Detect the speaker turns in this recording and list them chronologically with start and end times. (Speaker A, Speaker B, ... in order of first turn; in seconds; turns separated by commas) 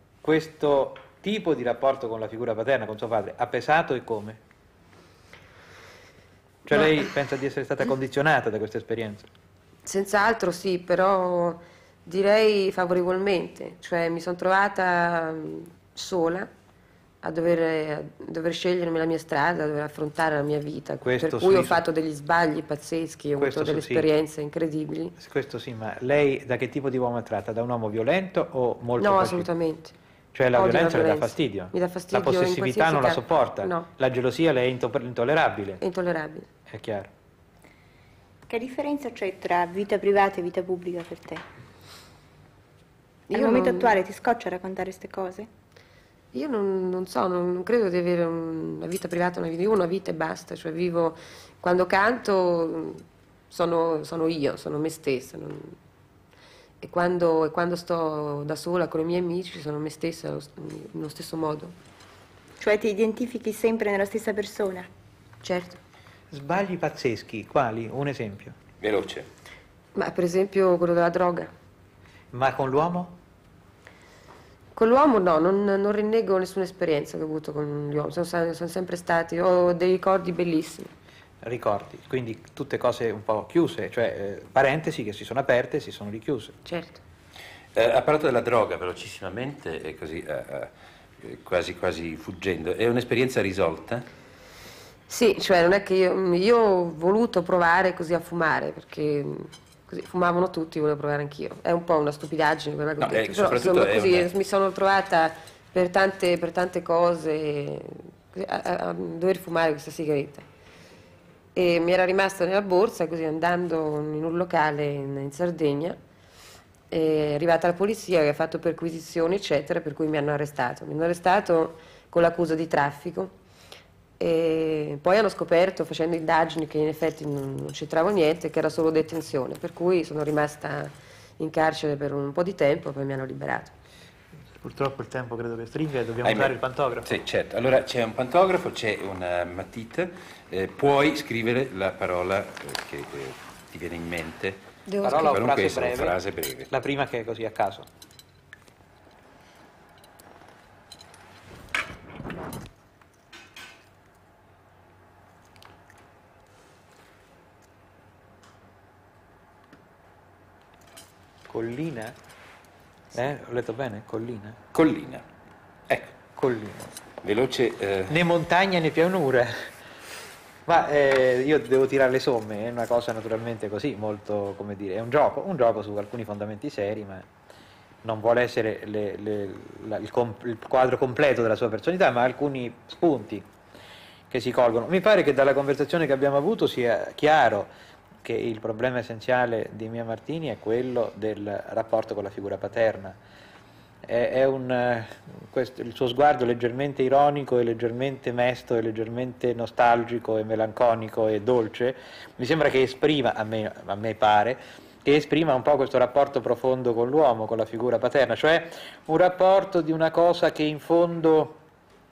Speaker A: 0.2-4.4, Speaker A: 6.7-9.3, Speaker B: 9.8-16.5, Speaker B: 17.2-25.1, Speaker A: 21.0-21.8, Speaker A: 23.4-24.1, Speaker A: 25.2-29.5, Speaker B: 29.0-29.9, Speaker A: 30.3-35.8, Speaker B: 30.5-33.9, Speaker B: 35.8-36.5, Speaker A: 36.7-37.1, Speaker C: 38.5-41.4, Speaker B: 43.3-44.0, Speaker C: 43.3-45.5, Speaker B: 46.3-55.8, Speaker B: 56.8-61.7, Speaker C: 62.6-64.9, Speaker B: 65.4-65.8, Speaker A: 66.3-68.6, Speaker D: 68.8-69.3, Speaker B: 70.0-71.5, Speaker A: 72.3-73.2, Speaker B: 74.8-80.9, Speaker A: 81.4-86.6, Speaker B: 86.7-87.0, Speaker D: 87.8-90.7, Speaker D: 91.2-94.1, Speaker B: 95.1-110.5, Speaker D: 103.0-104.3, Speaker B: 111.5-116.0, Speaker B: 116.9-123.3, Speaker B: 124.2-133.7, Speaker A: 134.6-137.1, Speaker D: 136.2-146.7, Speaker B: 144.9-145.4, Speaker A: 145.0-146.2, Speaker A: 146.7-147.9, Speaker A: 161.5-162.2, Speaker A: 163.1-164.6, Speaker D: 164.7-165.2, Speaker D: 165.9-166.2, Speaker A: 166.4-166.9, Speaker D: 167.2-168.2, Speaker A: 168.1-169.7, Speaker A: 170.7-177.3, Speaker A: 178.0-183.5, Speaker A: 184.3-187.7, Speaker A: 188.2-193.2, Speaker A: 194.1-211.6